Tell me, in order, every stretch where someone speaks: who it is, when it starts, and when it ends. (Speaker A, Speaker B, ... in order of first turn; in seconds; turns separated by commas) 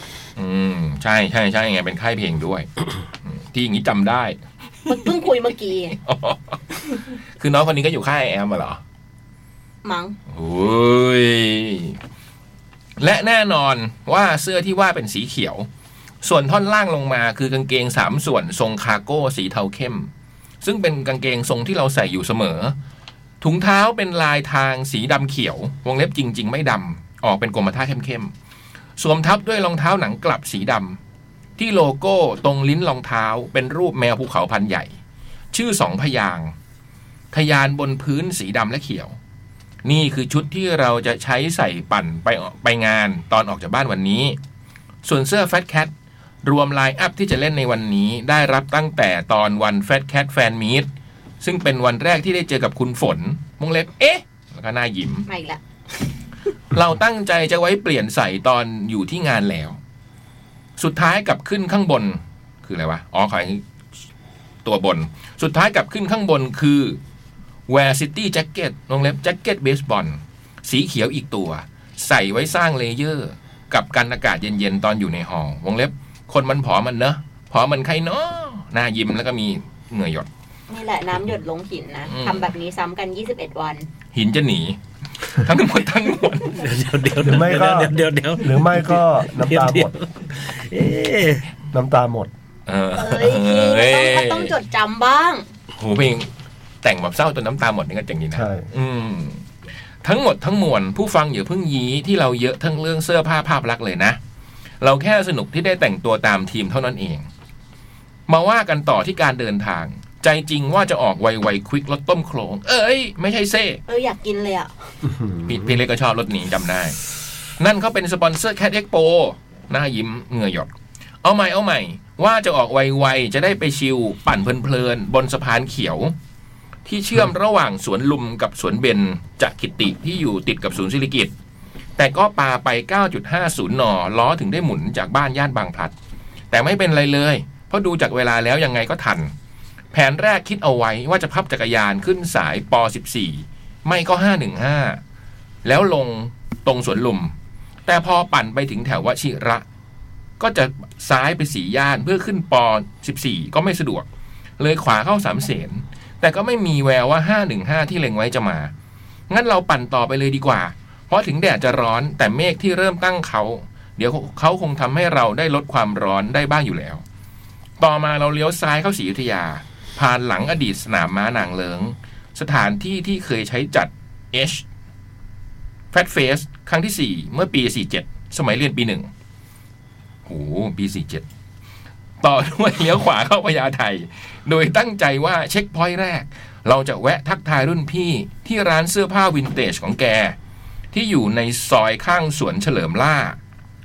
Speaker A: 0.4-2.7, Speaker A: 3.2-4.4, Speaker B: 4.9-6.0, Speaker A: 6.0-8.8, Speaker B: 9.8-10.2, Speaker A: 10.3-12.0, Speaker A: 13.0-15.7, Speaker A: 16.2-20.1, Speaker A: 20.6-22.7, Speaker A: 23.4-28.3, Speaker A: 29.0-31.0, Speaker A: 31.6-34.9, Speaker A: 35.5-36.5, Speaker A: 37.3-39.1, Speaker A: 39.8-44.4, Speaker A: 45.0-45.9, Speaker A: 46.4-50.9, Speaker A: 51.4-55.2, Speaker B: 55.2-55.6, Speaker A: 56.7-59.8, Speaker A: 60.8-63.6, Speaker A: 64.6-67.0, Speaker A: 67.7-80.3, Speaker B: 80.7-83.9, Speaker A: 82.1-82.5, Speaker A: 84.1-86.6, Speaker C: 86.5-91.5, Speaker D: 87.2-89.9, Speaker D: 91.7-92.3, Speaker A: 92.7-94.5, Speaker B: 92.9-95.5, Speaker A: 95.8-96.3, Speaker A: 96.8-99.4, Speaker D: 98.3-98.7, Speaker A: 100.0-104.2, Speaker A: 104.8-107.3, Speaker A: 108.3-113.8, Speaker B: 113.9-114.7, Speaker A: 115.4-117.0, Speaker A: 117.6-120.7, Speaker A: 121.2-126.1, Speaker A: 126.8-131.3, Speaker A: 132.0-135.9, Speaker A: 136.5-139.3, Speaker A: 139.9-145.0, Speaker A: 145.6-147.3, Speaker A: 147.8-149.6, Speaker A: 150.4-154.0, Speaker A: 154.6-158.7, Speaker A: 159.3-167.0, Speaker A: 167.8-174.6, Speaker A: 175.9-179.1, Speaker A: 180.2-181.2, Speaker A: 182.2-190.3, Speaker A: 190.9-193.4